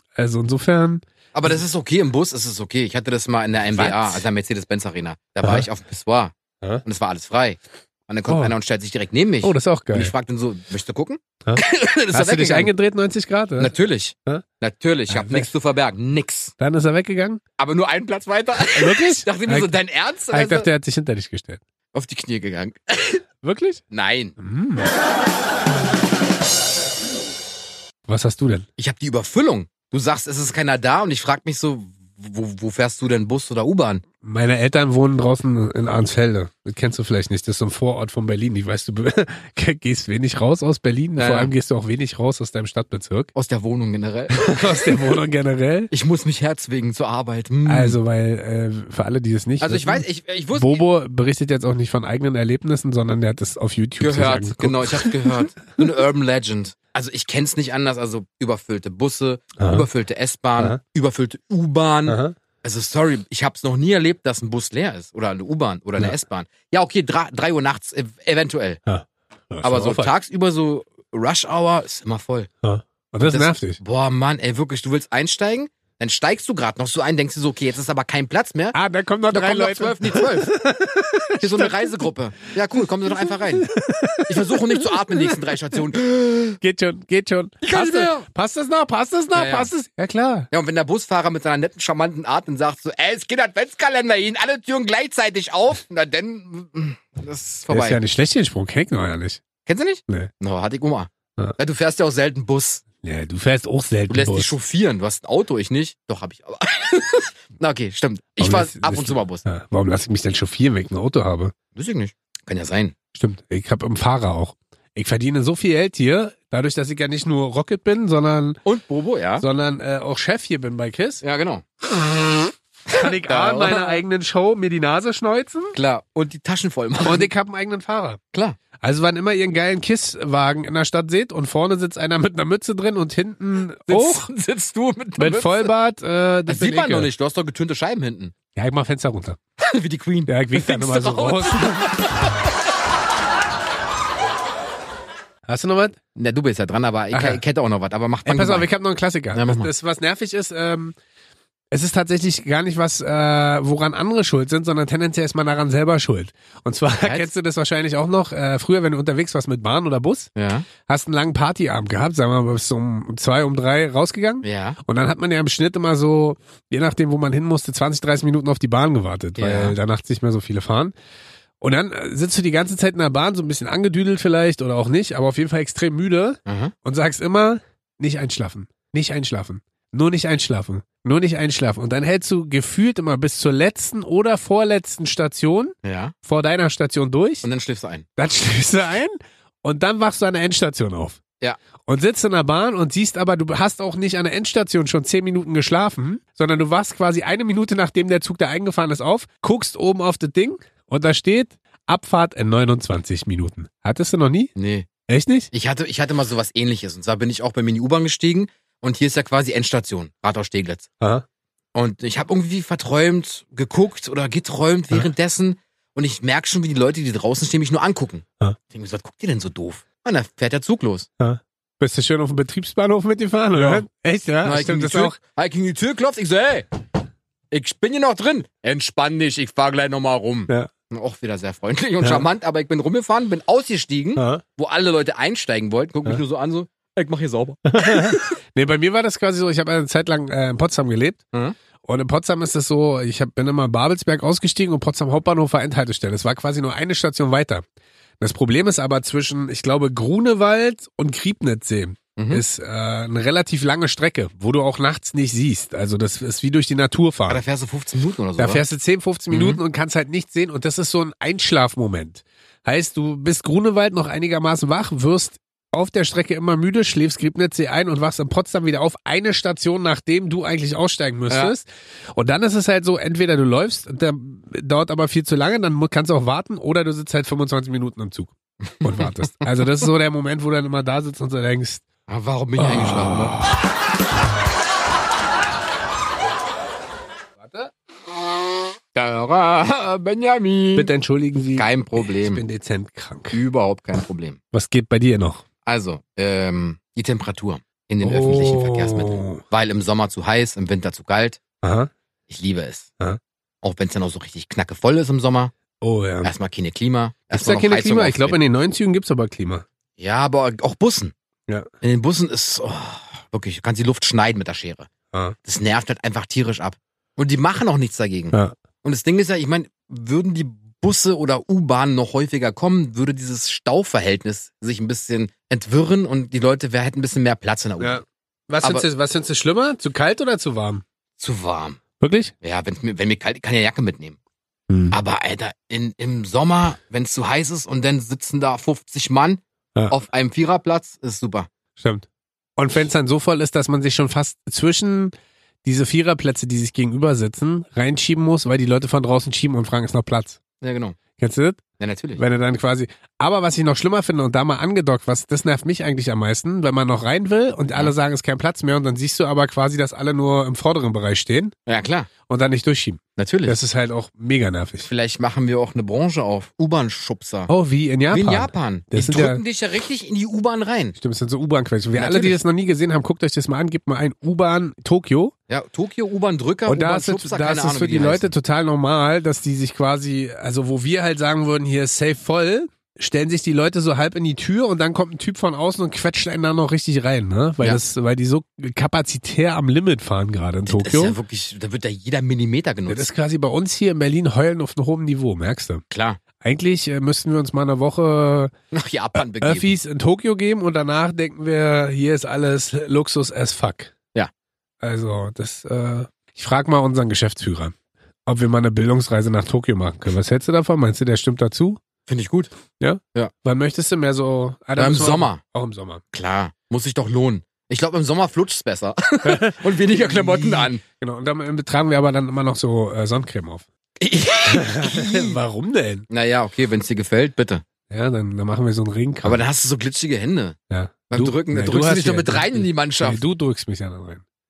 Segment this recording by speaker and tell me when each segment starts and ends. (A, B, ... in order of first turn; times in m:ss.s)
0:00.2-0:01.6 A
0:01.3-0:12.7 B
0:03.7-0:04.2 A
0:08.3-0:08.5 A
0:09.4-0:10.1 A
0:11.4-0:13.7 A
0:13.6-0:16.5 B
0:15.1-0:15.5 A
0:16.6-0:17.4 A
0:17.6-0:20.7 B
0:18.7-0:19.7 A
0:20.3-0:21.6 A
0:21.9-0:23.2 B
0:23.4-0:23.8 A
0:23.9-0:24.4 B
0:24.4-0:24.9 A
0:28.1-0:28.6 A
0:28.8-0:34.0 B
0:34.2-0:43.3 A
0:41.2-0:41.5 B
0:43.3-0:44.9 B
0:44.3-0:45.9 A
0:45.9-0:48.0 B
0:47.6-0:55.3 A
0:49.6-0:50.8 B
0:54.0-1:08.8 B
0:59.6-0:59.8 A
1:02.1-1:02.4 A
1:08.9-1:10.1 A
1:09.6-1:12.5 B
1:12.6-1:13.8 A
1:13.2-1:18.8 B
1:18.7-1:22.1 A
1:19.3-1:20.5 B
1:21.4-1:23.7 B
1:22.7-1:25.8 A
1:24.2-1:26.6 B
1:26.6-1:30.5 A
1:27.6-1:28.2 B
1:29.3-1:29.7 B
1:30.5-1:38.0 B
1:37.7-1:39.4 A
1:39.6-1:42.8 B
1:43.0-1:44.5 A
1:44.1-1:49.4 B
1:48.4-1:51.5 A
1:51.7-1:52.9 B
1:53.1-1:58.6 A
1:58.6-1:59.4 B
1:59.4-2:01.2 A
2:01.2-2:01.6 B
2:02.9-2:04.0 B
2:02.9-2:05.8 A
2:05.7-2:07.3 B
2:07.0-2:08.2 A
2:08.3-2:08.6 B
2:08.8-2:14.3 A
2:13.9-2:15.7 B
2:15.2-2:17.1 A
2:16.5-2:18.3 B
2:18.5-2:19.4 A
2:19.6-2:22.5 B
2:20.3-2:22.0 A
2:25.5-2:26.0 A
2:26.2-2:28.7 B
2:27.1-2:27.4 A
2:28.2-2:30.9 A
2:29.3-2:29.7 B
2:31.7-2:40.3 A
2:37.0-2:37.3 B
2:40.4-2:40.7 B
2:40.8-2:50.9 A
2:44.4-2:44.8 B
2:49.4-2:49.8 B
2:51.6-3:07.5 A
2:56.4-2:56.7 B
3:05.8-3:06.1 B
3:07.4-3:08.0 B
3:08.2-3:11.2 A
3:11.8-3:24.5 A
3:24.6-3:24.9 B
3:25.1-3:25.5 A
3:25.5-3:30.9 B
3:31.7-3:41.1 B
3:41.2-3:45.2 A
3:43.5-3:43.8 B
3:44.4-3:46.7 B
3:47.5-3:58.4 B
3:54.2-3:54.4 A
3:57.7-4:01.2 A
4:01.8-4:07.6 A
4:08.2-4:17.4 A
4:12.2-4:12.4 B
4:17.3-4:18.6 B
4:18.4-4:41.8 A
4:19.3-4:19.6 B
4:31.3-4:31.5 B
4:38.6-4:39.5 B
4:42.1-4:43.4 B
4:42.6-4:43.6 A
4:47.4-4:47.7 A
4:48.9-4:50.9 B
4:50.8-4:53.4 A
4:51.5-4:52.4 B
4:53.3-4:54.4 B
4:54.5-4:55.4 A
4:55.6-5:01.4 B
4:58.0-4:59.4 A
5:01.6-5:01.9 A
5:02.3-5:02.9 B
5:03.6-5:05.5 B
5:05.8-5:06.3 A
5:06.2-5:08.4 B
5:07.3-5:09.6 A
5:10.0-5:11.1 B
5:11.8-5:14.9 B
5:15.4-5:28.0 B
5:27.8-5:30.8 A
5:31.2-5:31.8 B
5:32.0-5:32.3 A
5:32.4-5:34.2 B
5:34.7-5:34.9 A
5:34.9-5:41.5 B
5:41.8-5:42.0 A
5:42.6-5:50.4 A
5:50.6-5:51.0 B
5:51.2-5:51.6 A
5:51.8-5:52.2 B
5:52.2-6:01.5 A
6:01.7-6:02.1 B
6:02.3-6:04.9 A
6:03.2-6:03.6 B
6:04.8-6:07.5 B
6:07.5-6:09.4 A
6:08.1-6:10.9 B
6:11.0-6:15.3 A
6:11.9-6:12.4 B
6:15.5-6:18.3 B
6:16.7-6:31.2 A
6:30.6-6:33.1 B
6:32.9-6:35.8 A
6:35.9-6:36.2 B
6:36.4-6:38.5 A
6:38.7-6:39.7 B
6:39.2-6:43.9 A
6:44.8-6:47.7 A
6:48.2-6:51.8 A
6:52.1-6:52.5 B
6:52.8-6:56.0 A
6:54.8-6:55.4 B
6:56.1-7:00.8 B
6:59.2-7:03.6 A
7:04.0-7:05.4 B
7:04.5-7:06.0 A
7:06.1-7:07.6 B
7:07.9-7:09.4 A
7:09.2-7:10.6 B
7:10.7-7:14.2 A
7:11.1-7:13.2 B